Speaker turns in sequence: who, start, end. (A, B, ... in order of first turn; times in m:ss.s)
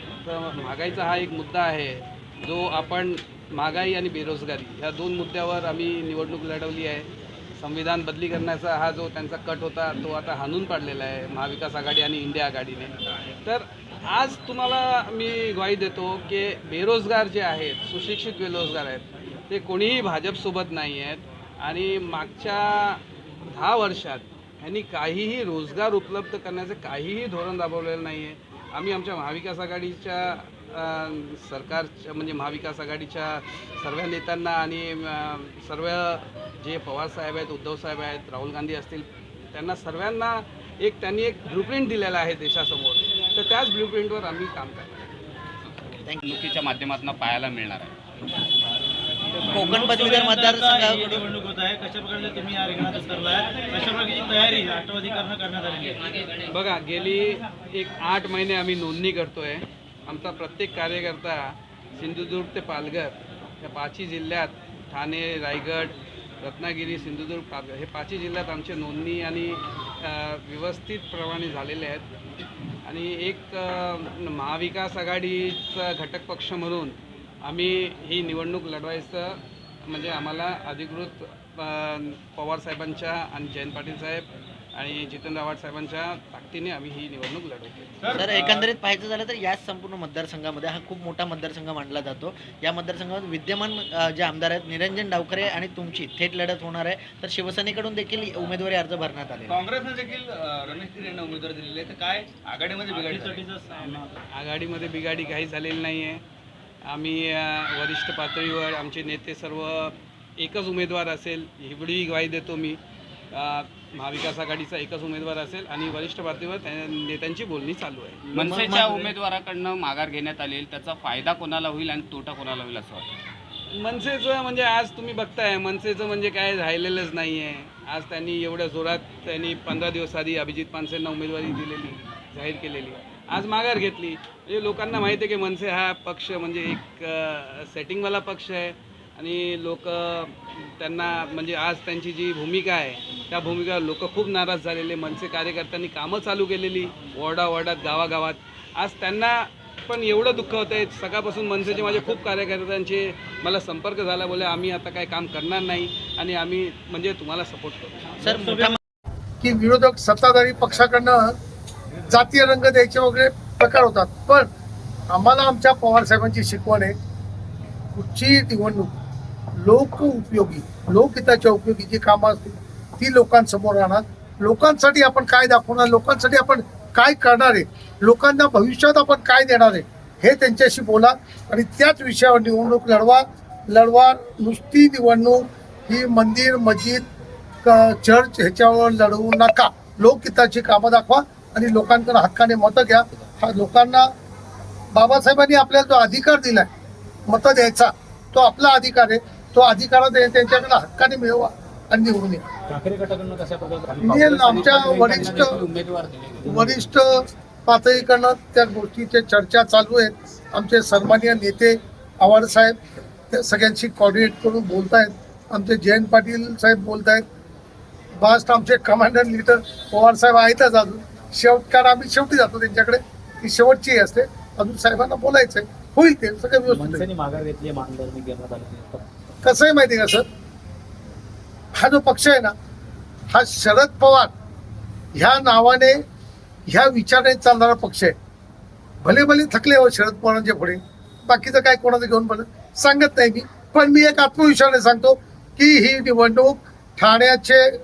0:00.2-0:45.1 A
0:46.0-0:46.3 B
0:46.2-0:48.0 C
0:49.4-0:51.2 B
0:49.6-0:56.2 D
0:56.4-1:12.1 A
1:12.8-1:27.9 A
1:28.0-1:28.7 E
1:28.1-1:39.6 B
1:39.5-1:43.4 E
1:42.8-1:44.1 D
1:44.3-1:46.2 A
1:46.9-1:52.8 A
1:53.3-1:58.2 A
1:58.3-1:59.1 B
1:58.3-2:03.1 C
2:03.7-2:38.1 A
2:38.2-2:38.8 B
2:38.2-2:38.8 D
2:39.4-2:41.3 F
2:42.1-2:44.5 F
2:45.1-2:47.0 F
2:47.9-2:48.9 F
2:49.6-3:07.0 F
3:07.6-3:14.1 F
3:14.9-3:16.7 F
3:17.3-3:22.4 F
3:22.7-3:25.5 D
3:24.0-3:25.6 F
3:24.2-3:26.5 C
3:26.4-3:26.9 D
3:26.4-3:32.8 F
3:33.3-3:37.2 F
3:38.2-3:47.1 F
3:46.6-3:49.0 D
3:49.4-3:50.2 F
3:51.8-3:52.5 F
3:53.3-3:54.3 F
3:55.2-3:56.0 F
3:56.7-3:58.1 F
3:59.0-4:07.6 F